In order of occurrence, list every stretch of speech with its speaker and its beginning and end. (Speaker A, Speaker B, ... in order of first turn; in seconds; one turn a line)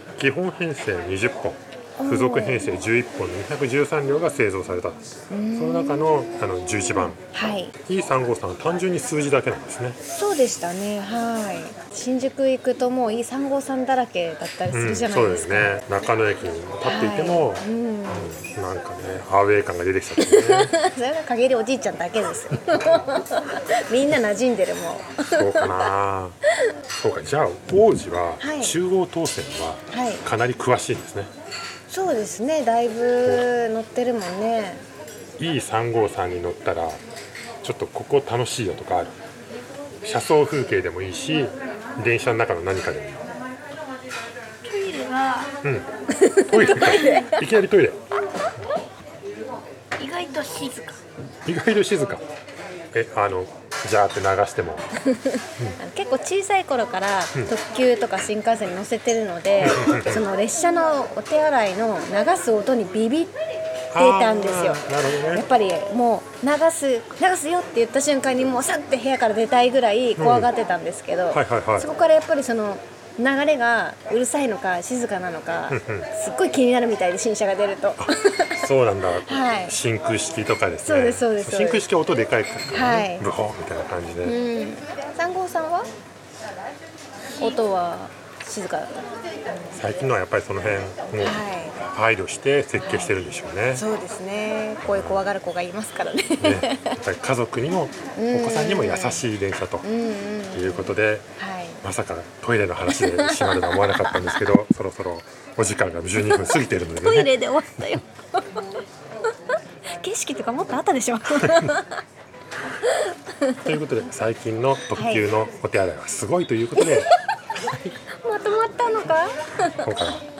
Speaker A: 0.1-5.0
Speaker B: 2.0-2.8
Speaker B: 5.3-7.7
Speaker A: 5.5-7.2
Speaker A: 7.8-10.0
Speaker B: 10.1-15.8
Speaker A: 14.7-20.8
Speaker B: 16.8-18.3
Speaker B: 20.2-25.9
Speaker A: 25.3-26.4
Speaker A: 26.9-31.3
Speaker B: 28.4-28.8
Speaker B: 29.9-30.2
Speaker B: 31.9-34.8
Speaker A: 35.4-37.0
Speaker A: 37.6-39.2
Speaker A: 40.0-43.2
Speaker C: 44.6-45.5
Speaker A: 45.6-45.9
Speaker B: 46.1-47.4
Speaker A: 46.5-48.0
Speaker C: 46.5-47.4
Speaker C: 50.0-51.0
Speaker A: 51.5-52.2
Speaker A: 52.9-54.8
Speaker B: 55.0-63.3
Speaker A: 59.6-60.2
Speaker A: 63.9-65.5
Speaker B: 63.9-78.7
Speaker A: 70.2-70.5
Speaker A: 71.3-71.9
Speaker A: 75.7-76.1
Speaker A: 78.0-84.4
Speaker B: 79.3-79.8
Speaker B: 80.8-81.9
Speaker B: 82.7-83.3
Speaker B: 84.2-85.9
Speaker B: 87.4-89.7
Speaker A: 89.7-93.8
Speaker B: 91.2-91.8
Speaker B: 92.8-93.1
Speaker B: 93.7-97.0
Speaker A: 94.9-95.3
Speaker A: 96.4-99.8
Speaker B: 98.1-99.3
Speaker B: 99.8-101.8
Speaker A: 100.5-101.3
Speaker A: 101.8-107.3
Speaker B: 102.9-104.4
Speaker B: 106.2-108.5
Speaker B: 109.9-112.0
Speaker A: 111.4-111.7
Speaker B: 112.7-113.6
Speaker A: 113.6-117.1
Speaker B: 114.9-115.2
Speaker B: 116.8-117.2
Speaker B: 118.2-120.2
Speaker A: 119.8-120.2